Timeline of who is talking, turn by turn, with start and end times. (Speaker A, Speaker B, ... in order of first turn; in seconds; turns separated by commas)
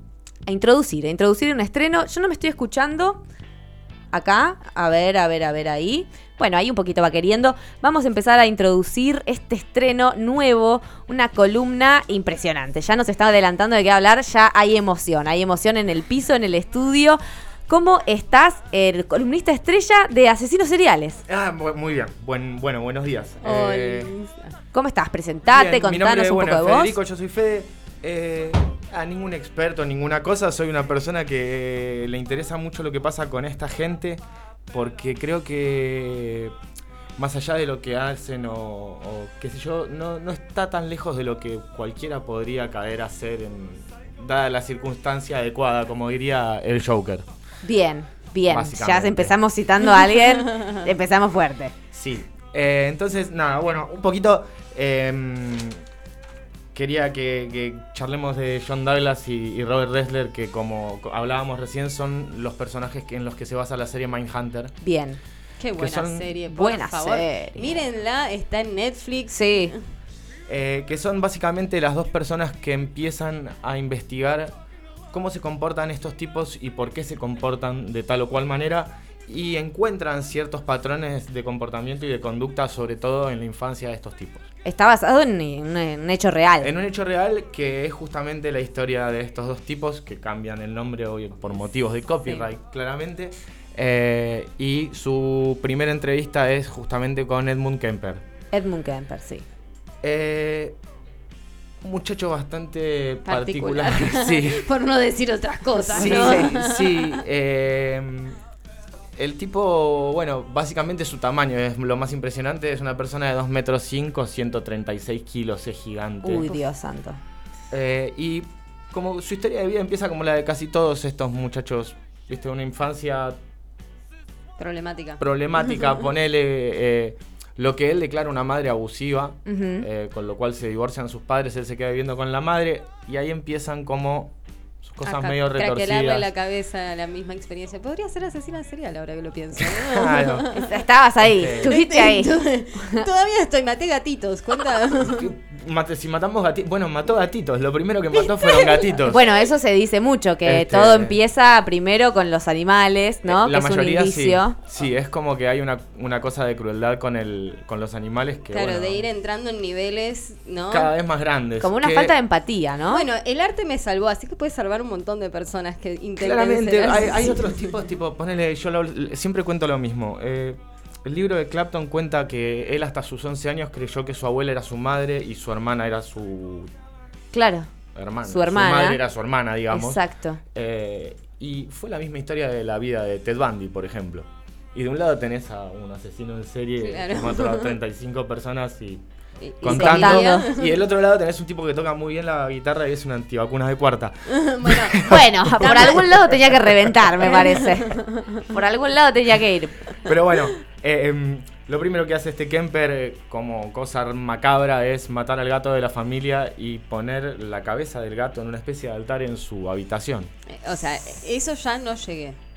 Speaker A: 0.5-3.2, Speaker A: 4.1-21.2, Speaker B: 21.3-24.1, Speaker C: 23.4-24.5, Speaker A: 24.7-26.9, Speaker B: 25.5-36.5, Speaker B: 37.2-47.2, Speaker A: 47.6-51.7, Speaker B: 48.5-49.4, Speaker C: 50.5-50.8, Speaker B: 51.9-55.8, Speaker B: 56.7-64.7, Speaker A: 64.8-65.2, Speaker C: 65.6-69.8, Speaker B: 65.8-66.4, Speaker A: 66.5-67.8, Speaker A: 69.3-69.7, Speaker B: 70.5-74.5, Speaker B: 75.1-84.5, Speaker A: 84.6-86.7, Speaker B: 86.6-98.2, Speaker A: 98.5-99.4, Speaker B: 100.0-100.8, Speaker B: 101.8-104.7, Speaker C: 103.2-107.2, Speaker B: 105.9-108.4, Speaker A: 105.9-106.5, Speaker B: 109.2-116.5, Speaker A: 116.2-117.2, Speaker B: 117.7-123.4, Speaker C: 124.6-125.2, Speaker B: 125.2-136.3, Speaker A: 129.4-129.9, Speaker C: 135.0-140.8, Speaker B: 139.6-140.5, Speaker A: 140.5-143.1, Speaker B: 141.2-141.8, Speaker C: 141.5-145.3, Speaker B: 145.0-149.2, Speaker C: 148.2-148.9, Speaker A: 149.1-154.6, Speaker B: 150.4-151.2, Speaker B: 153.2-159.1, Speaker C: 158.5-160.9, Speaker B: 160.7-162.2, Speaker A: 161.6-163.1, Speaker C: 162.9-167.8, Speaker B: 166.2-176.7, Speaker A: 177.3-177.7, Speaker B: 177.9-180.0, Speaker A: 178.2-179.0, Speaker A: 179.7-180.4, Speaker B: 180.5-189.0, Speaker C: 186.8-187.8, Speaker C: 189.4-190.8, Speaker B: 189.6-197.1, Speaker A: 189.7-190.5, Speaker C: 194.3-195.1, Speaker A: 195.0-199.9, Speaker C: 195.6-195.9, Speaker C: 197.2-198.5, Speaker B: 200.0-210.3, Speaker C: 210.5-212.4